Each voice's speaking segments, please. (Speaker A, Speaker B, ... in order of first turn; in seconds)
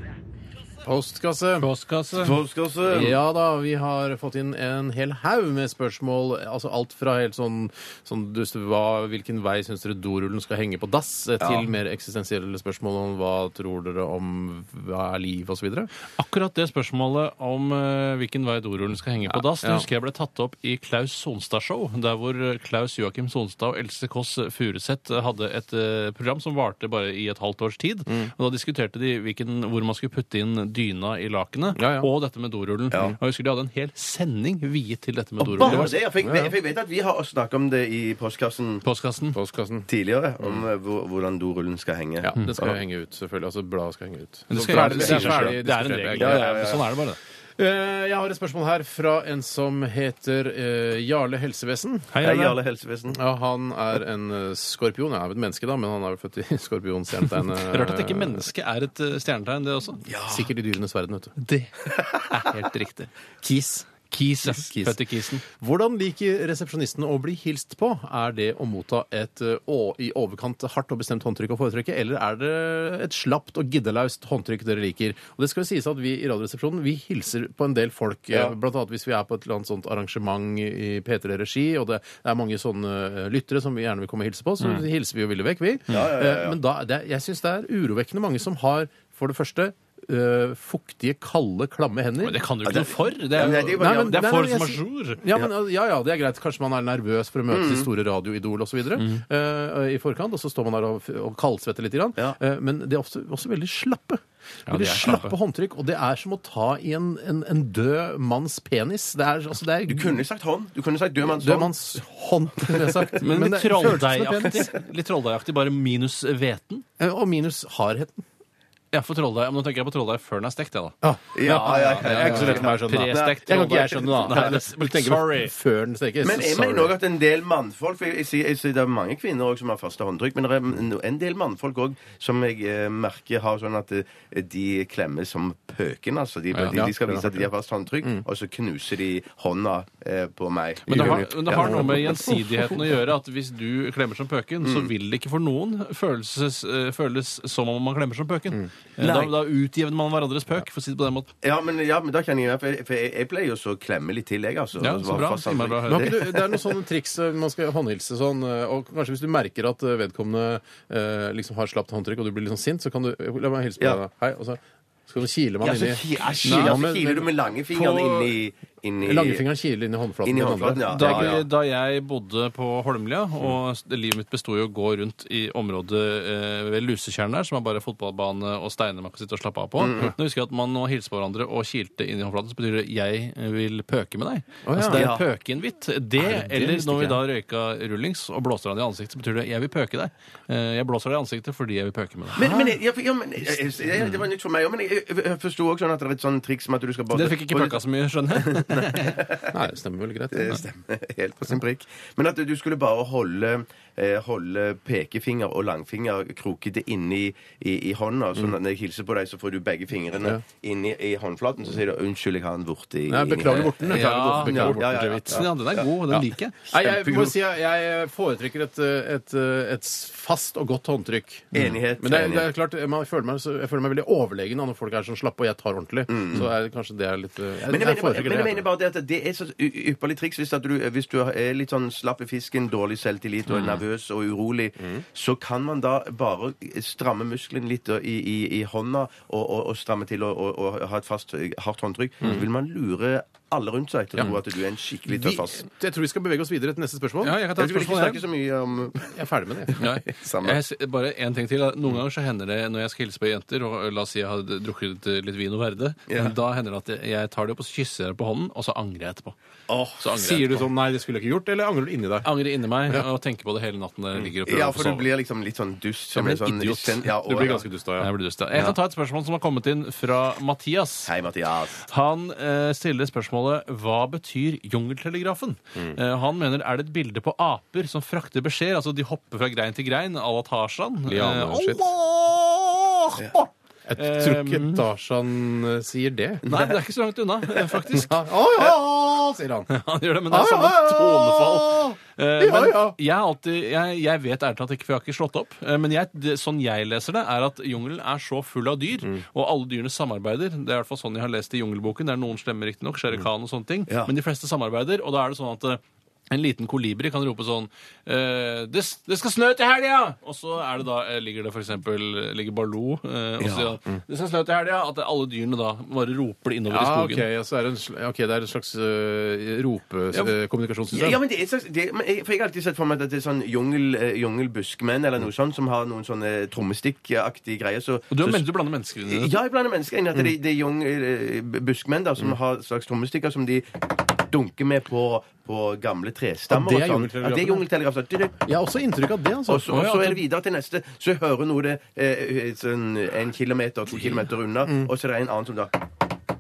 Speaker A: 0.8-1.7, 2.9-15.9, 19.3-19.9, 31.8-32.1, 35.6-36.5, 39.3-39.9, 42.2-46.6, 47.6-52.1, 53.1-58.5, 60.3-61.4, 63.4-92.4, 93.8-110.2, 111.2-114.7, 117.0-118.2, 121.0-126.9, 136.6-137.5, 140.9-142.8, 155.9-167.3, 169.0-171.4, 184.7-185.1, 186.2-187.2, 199.5-200.6, 213.1-215.5, 216.7-228.7, 245.1-247.4, 249.1-249.8, 260.1-262.3, 267.2-268.1, 281.1-281.9, 283.9-286.5, 287.9-289.7, 290.3-293.0, 316.7-321.2, 336.5-337.6, 338.4-339.8, 344.6-344.9
Speaker B: 1.6-2.4, 16.2-36.0, 38.8-39.4, 44.5-47.2, 52.1-52.6, 57.4-60.0, 61.4-63.1, 64.1-65.4, 92.2-95.2, 99.0-99.2, 104.7-105.3, 113.2-116.8, 118.9-125.5, 136.5-136.8, 140.9-151.3, 154.8-156.2, 166.4-166.9, 167.7-168.3, 170.9-192.6, 197.1-199.2, 213.5-216.6, 233.5-233.8, 247.2-248.2, 249.8-259.4, 260.0-260.7, 262.2-265.1, 266.1-271.1, 271.8-284.8, 286.5-288.1, 289.7-317.3, 328.1-329.4, 339.7-340.2
Speaker C: 2.2-3.2, 32.9-33.2, 35.4-38.9, 39.9-42.8, 44.6-45.6, 46.2-46.9, 52.2-53.2, 60.1-60.5, 85.9-86.6, 92.6-94.3, 97.5-97.9, 109.9-111.8, 112.6-113.1, 121.3-124.5, 126.2-142.3, 144.6-144.9, 149.0-149.3, 151.4-156.6, 165.6-169.4, 170.2-171.4, 179.8-180.1, 184.9-185.3, 192.4-197.8, 198.3-199.5, 200.3-215.9, 216.7-217.4, 221.5-222.5, 226.1-226.5, 227.7-245.7, 247.6-250.6, 256.1-256.4, 259.7-260.0, 264.4-267.7, 271.1-271.9, 313.4-313.8, 320.9-328.4, 329.1-338.4, 339.5-345.8